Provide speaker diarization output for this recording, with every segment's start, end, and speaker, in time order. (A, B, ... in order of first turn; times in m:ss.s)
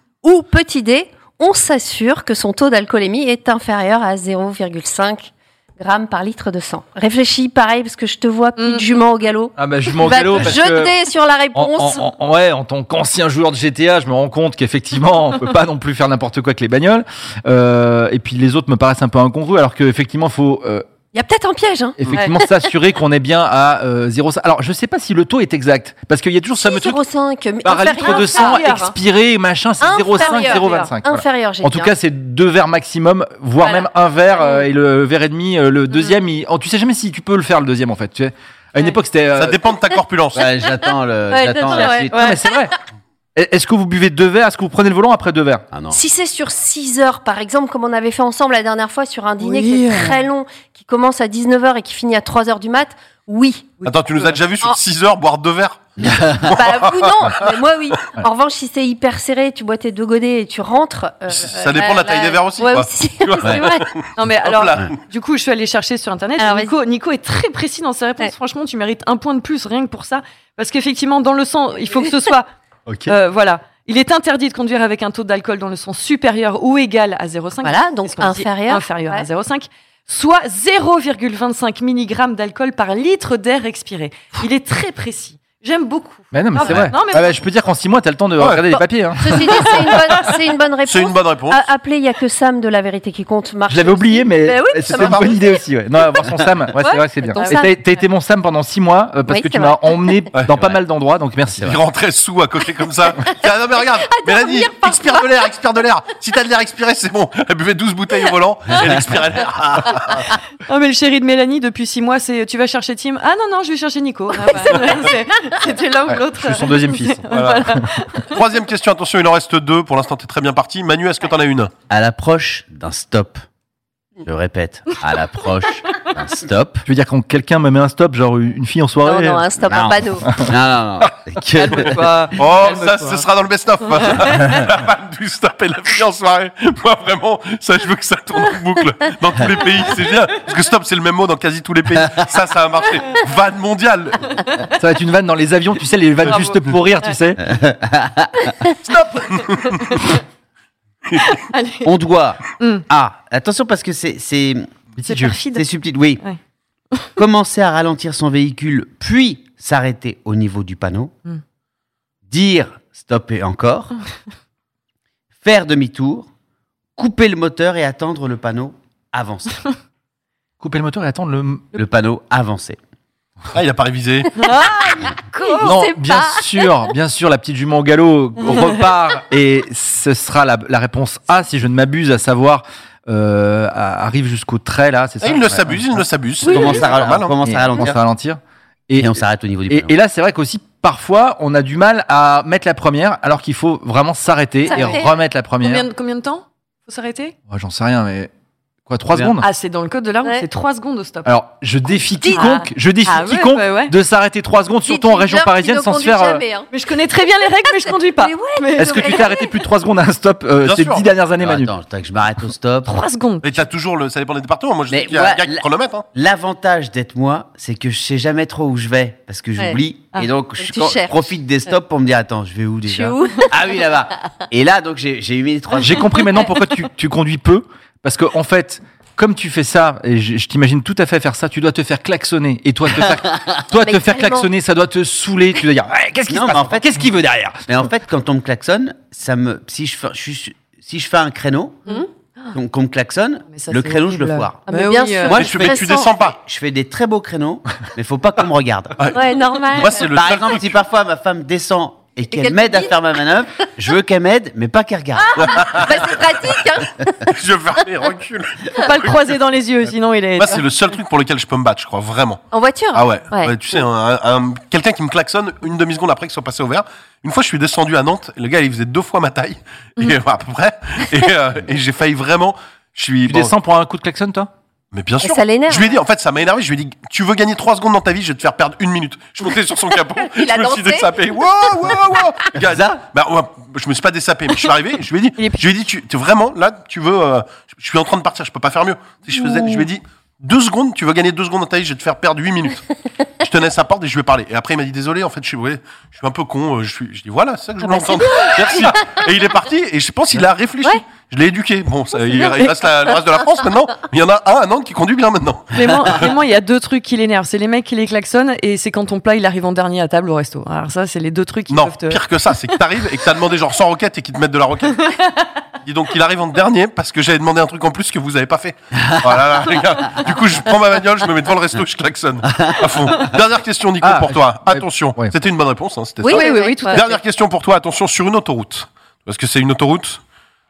0:00.2-0:12.0 A
0:08.6-0:08.9 B
0:09.6-0:11.0 C
0:11.6-0:20.9 C
0:21.1-0:22.2 A
0:22.0-0:27.0 C
0:26.6-0:28.9 A
0:27.6-0:39.6 C
0:28.0-0:28.9 B
0:29.8-0:31.9 A
0:30.2-0:30.9 B
0:39.4-0:40.5 D
0:40.4-0:42.3 E
0:41.3-0:42.4 A
0:41.7-0:42.4 B
0:42.1-0:42.7 C
0:43.4-0:45.6 C
0:45.7-0:46.0 E
0:45.9-0:53.8 A
0:49.4-0:50.2 B
0:53.8-0:54.4 B
0:53.8-0:57.6 D
0:56.0-0:56.5 E
0:56.5-1:03.9 A
1:01.3-1:05.0 D
1:04.2-1:12.5 B
1:06.4-1:06.7 A
1:12.9-1:13.1 C
1:13.1-1:27.4 B
1:17.6-1:19.3 A
1:26.3-1:30.1 C
1:28.4-1:28.6 D
1:28.7-1:35.6 A
1:30.9-1:31.6 D
1:33.7-1:41.8 C
1:34.9-1:35.2 D
1:36.8-1:37.7 A
1:37.4-1:37.7 B
1:39.3-1:40.2 A
1:40.5-1:40.8 E
1:41.5-1:41.8 E
1:41.6-1:50.3 D
1:44.1-1:45.2 A
1:48.7-1:49.9 E
1:50.7-1:58.4 B
1:54.4-1:55.1 A
1:56.1-1:57.8 C
1:57.3-1:57.7 D
1:58.3-2:01.7 D
2:01.9-2:03.4 E
2:04.2-2:06.8 E
2:06.9-2:09.5 C
2:09.0-2:10.4 A
2:09.7-2:12.0 E
2:11.6-2:13.2 B
2:12.4-2:24.4 D
2:14.0-2:14.3 B
2:24.8-2:27.4 C
2:26.3-2:27.2 B
2:27.4-2:28.6 E
2:28.9-2:29.4 C
2:29.7-2:30.2 B
2:31.2-2:31.9 B
2:31.8-2:34.7 E
2:32.6-2:32.8 B
2:35.0-2:35.4 C
2:35.0-2:35.6 B
2:35.5-2:36.2 E
2:37.2-2:41.1 E
2:42.3-2:44.0 E
2:45.4-2:46.3 E
2:47.0-2:49.7 E
2:50.6-2:51.7 C
2:51.7-2:52.8 E
2:53.5-2:54.4 D
2:54.4-2:55.8 B
2:54.9-2:56.7 A
2:55.6-3:05.8 C
3:05.2-3:07.3 D
3:06.4-3:08.0 E
3:06.5-3:06.8 A
3:07.4-3:15.9 C
3:09.0-3:09.9 E
3:14.7-3:15.1 A
3:14.7-3:15.0 B
3:15.6-3:17.4 B
3:17.5-3:18.3 C
3:18.9-3:19.5 C
3:19.1-3:19.4 E
3:19.4-3:21.3 B
3:21.2-3:26.4 C
3:22.2-3:22.6 A
3:22.3-3:23.9 B
3:24.9-3:26.7 A
3:26.7-3:29.3 B
3:27.7-3:29.5 A
3:28.8-3:31.7 C
3:30.6-3:31.1 D
3:31.4-3:33.0 E
3:32.9-3:33.7 B
3:33.4-3:36.1 D
3:34.9-3:46.2 E
3:40.6-3:41.2 A
3:42.9-3:43.6 A
3:45.8-3:57.6 C
3:53.8-3:54.5 A
3:56.3-3:57.0 E
3:57.7-4:01.9 E
4:01.9-4:02.6 B
4:02.5-4:04.7 E
4:03.5-4:05.5 B
4:04.7-4:06.1 A
4:05.3-4:06.4 D
4:05.3-4:09.1 E
4:09.0-4:10.8 D
4:09.1-4:10.1 A
4:10.1-4:15.9 E
4:12.3-4:13.0 A
4:15.2-4:17.3 A
4:15.4-4:16.2 D
4:17.3-4:19.2 D
4:18.8-4:20.6 B
4:20.4-4:22.4 D
4:22.5-4:23.5 A
4:22.9-4:33.5 D
4:33.3-4:34.5 C
4:34.9-4:52.8 D
4:35.2-4:36.0 A
4:40.3-4:41.1 A
4:42.6-4:43.0 E
4:53.4-5:06.3 D
4:57.8-4:59.2 A
5:02.3-5:02.7 A
5:05.7-5:12.2 B
5:11.7-5:15.1 D
5:15.0-5:15.5 B
5:15.8-5:30.2 D
5:19.0-5:19.6 E
5:22.5-5:22.8 E
5:24.0-5:25.4 C
5:26.2-5:27.0 A
5:26.3-5:27.2 B